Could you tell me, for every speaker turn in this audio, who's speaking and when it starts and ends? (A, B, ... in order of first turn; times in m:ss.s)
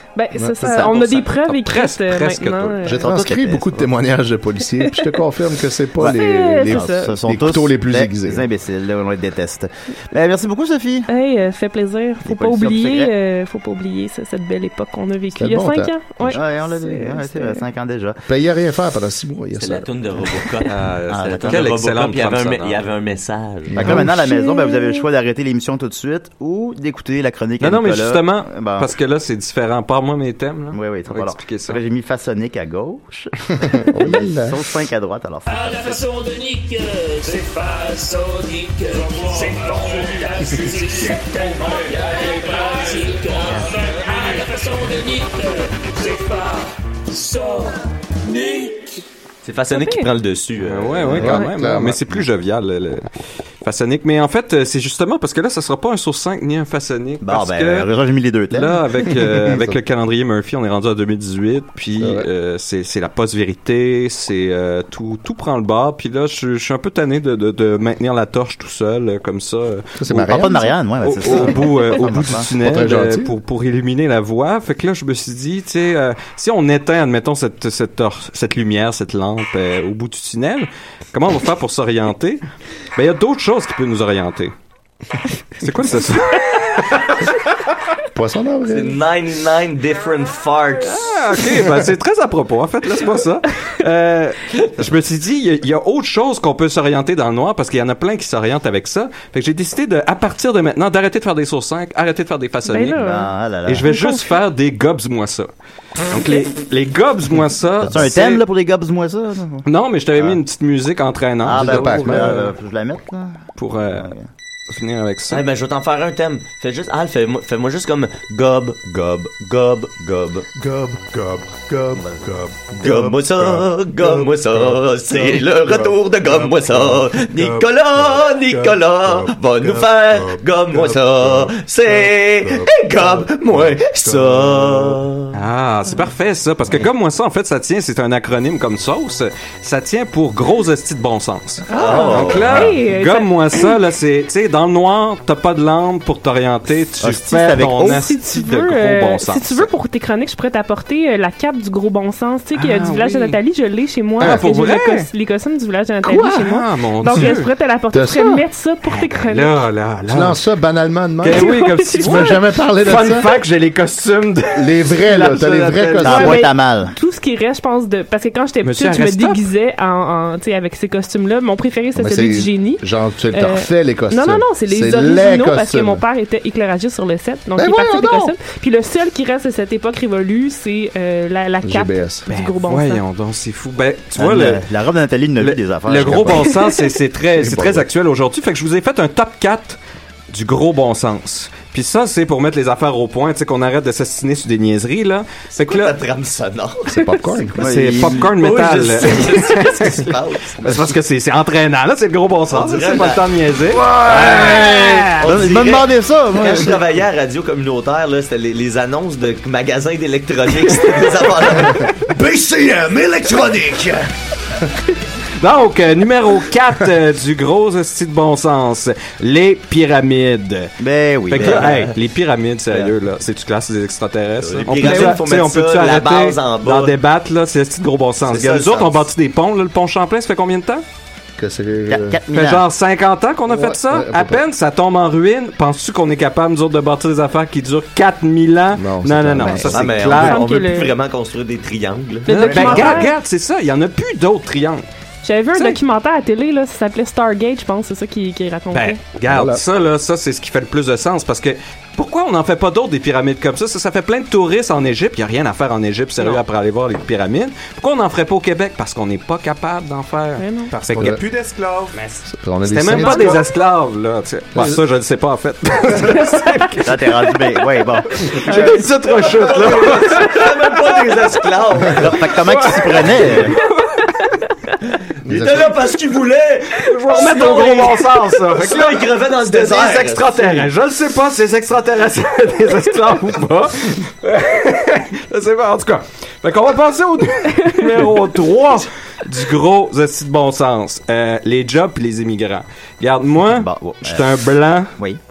0:00.2-0:03.1 A
0:00.4-0:00.6 B
0:00.6-0:01.2 C
0:01.1-0:02.9 D
0:02.8-0:08.4 B
0:03.0-0:03.9 C
0:04.8-0:05.1 A
0:06.0-0:11.1 C
0:06.0-0:07.2 A
0:11.1-0:17.6 A
0:12.2-0:13.1 C
0:15.3-0:16.4 B
0:16.3-0:18.2 C
0:18.3-0:20.3 B
0:19.6-0:23.8 E
0:20.7-0:22.8 D
0:21.1-0:21.6 C
0:23.7-0:24.1 B
0:23.8-0:28.9 C
0:23.9-0:25.1 A
0:27.6-0:31.8 D
0:30.7-0:36.0 C
0:33.7-0:34.6 B
0:35.5-0:49.0 F
0:49.4-0:51.3 E
0:49.7-0:50.1 A
0:50.6-0:53.1 D
0:51.2-0:52.2 B
0:53.6-0:57.9 D
0:57.2-0:58.8 C
0:58.5-1:10.5 D
1:02.0-1:02.3 B
1:10.0-1:10.6 B
1:10.1-1:12.5 C
1:11.0-1:22.4 D
1:12.6-1:13.3 B
1:23.0-1:24.5 D
1:25.6-1:27.2 D
1:28.1-1:29.0 B
1:28.7-1:31.1 E
1:30.8-1:43.0 D
1:42.6-1:43.3 A
1:42.9-1:43.9 C
1:43.6-1:45.5 D
1:43.8-1:44.4 A
1:46.1-1:48.4 D
1:47.8-1:49.6 C
1:49.6-1:52.5 D
1:51.4-1:54.2 C
1:51.5-1:52.4 B
1:53.6-1:54.1 D
1:54.7-1:55.4 D
1:55.3-2:00.5 E
2:00.6-2:15.0 G
2:02.8-2:15.3 E
2:15.3-2:29.7 D
2:21.7-2:22.6 E
2:21.7-2:23.7 A
2:27.0-2:28.1 C
2:27.8-2:39.5 A
2:32.5-2:33.4 D
2:34.2-2:35.1 D
2:36.0-2:37.5 D
2:37.9-2:38.4 B
2:38.9-2:40.4 D
2:40.1-2:43.3 B
2:41.2-2:46.4 D
2:41.3-2:42.4 A
2:44.5-2:46.4 B
2:46.0-2:46.9 C
2:46.0-3:03.0 A
2:48.6-2:49.5 D
2:51.9-2:56.0 B
2:57.6-2:58.3 B
3:01.6-3:02.3 B
3:02.3-3:04.6 D
3:04.1-3:06.5 C
3:05.4-3:09.8 D
3:06.4-3:07.0 A
3:07.4-3:07.8 B
3:10.3-3:16.0 D
3:15.5-3:17.1 E
3:16.9-3:17.6 B
3:17.6-3:18.3 C
3:17.6-3:20.1 D
3:18.1-3:20.8 E
3:20.6-3:25.2 D
3:22.5-3:23.2 E
3:23.9-3:34.0 E
3:24.0-3:26.8 C
3:35.4-3:40.7 D
3:40.8-3:41.9 C
3:41.3-3:50.8 D
3:41.4-3:41.9 E
3:44.4-3:46.9 E
3:44.9-3:45.1 A
3:48.2-3:49.1 E
3:51.4-3:52.2 B
3:51.9-3:52.6 C
3:52.3-4:00.5 D
3:53.5-3:54.4 B
3:58.8-3:59.8 B
3:59.7-4:03.0 E
4:00.1-4:00.9 A
4:02.2-4:03.1 A
4:02.3-4:04.8 D
4:05.2-4:09.0 A
4:05.5-4:05.8 D
4:08.7-4:21.2 D
4:09.3-4:09.6 B
4:20.4-4:20.7 A
4:20.7-4:22.0 G
4:21.9-4:26.9 D
4:22.3-4:23.4 B
4:22.9-4:23.4 A
4:24.5-4:24.8 B
4:26.0-4:26.8 A
4:26.8-4:28.4 C
4:28.1-4:30.5 D
4:28.5-4:32.3 E
4:31.9-4:33.6 C
4:32.4-4:33.5 D
4:35.2-4:40.7 E
4:35.2-4:35.7 B
4:36.8-4:54.9 D
4:47.6-4:48.0 A
4:53.4-4:55.2 C